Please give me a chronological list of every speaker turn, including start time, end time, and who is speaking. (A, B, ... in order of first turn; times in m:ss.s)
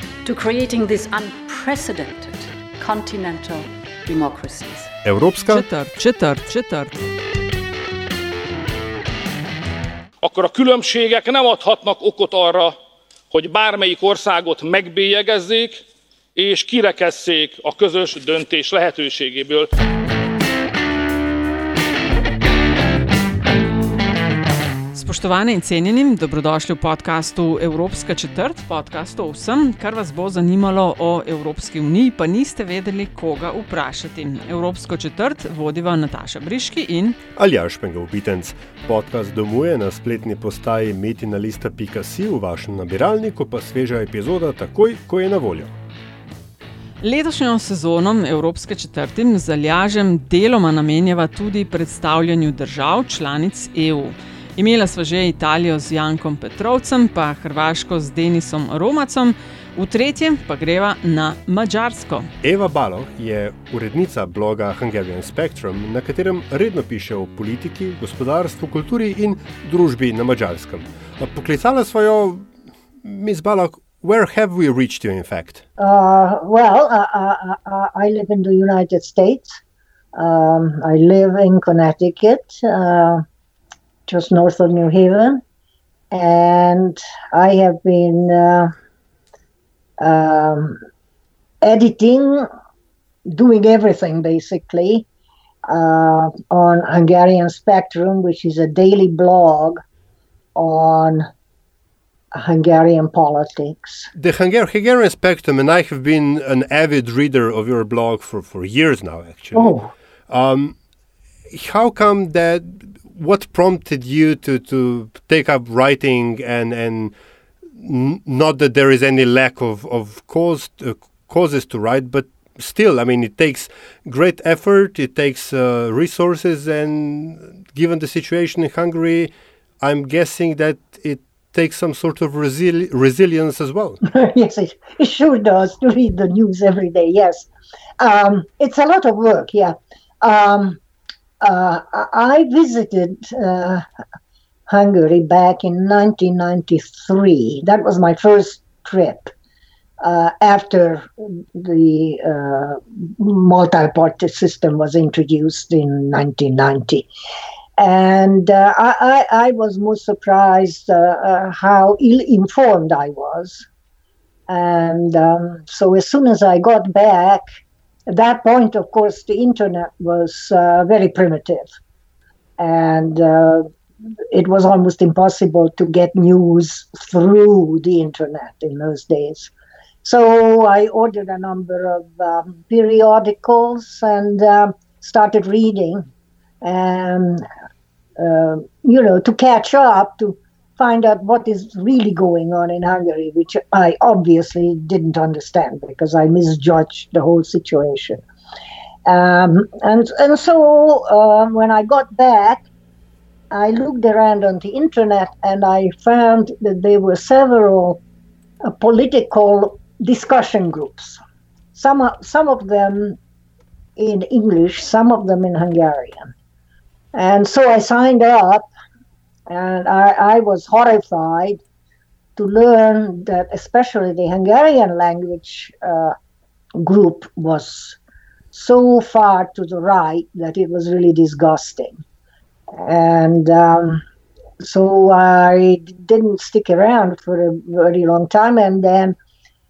0:00.2-0:04.9 A
0:05.0-0:05.7 B
0:05.4-0:07.0 C
0:10.2-0:12.7 D
0:13.3-0:15.8 D
0:16.3-0:19.7 D
0:24.9-0:37.2 C
0:37.4-0:45.7 B
0:47.0-1:02.3 C
1:02.4-1:12.5 B
1:13.0-1:15.6 B
1:15.8-1:19.6 E
1:20.2-1:23.2 E
1:24.1-1:25.4 E
1:26.1-1:28.7 E
1:30.0-1:30.8 E
1:31.6-1:32.5 E
1:33.3-1:35.1 E
1:35.7-1:39.8 E
1:40.5-1:41.3 E
1:42.3-1:44.1 E
1:44.2-1:49.8 B
1:49.5-1:49.9 E
1:50.3-1:50.8 B
1:51.5-1:57.1 B
1:57.8-2:14.0 B
2:14.0-2:17.5 E
2:18.0-2:20.8 E
2:21.4-2:23.8 E
2:24.7-2:29.3 E
2:30.0-2:37.1 E
2:37.8-2:43.7 E
2:44.5-2:47.4 E
2:48.1-2:51.7 E
2:52.6-2:53.7 E
2:54.3-2:59.5 E
3:00.0-3:06.1 E
3:06.6-3:07.4 E
3:08.2-3:18.2 E
3:19.1-3:22.7 E
3:23.5-3:28.0 E
3:28.6-3:31.2 E
3:31.8-3:33.2 E
3:34.0-3:36.3 E
3:37.1-3:38.7 E
3:39.5-3:41.6 E
3:42.4-3:46.1 E
3:46.8-3:48.0 E
3:48.5-3:52.0 E
3:52.8-3:54.0 E
3:54.6-3:59.2 E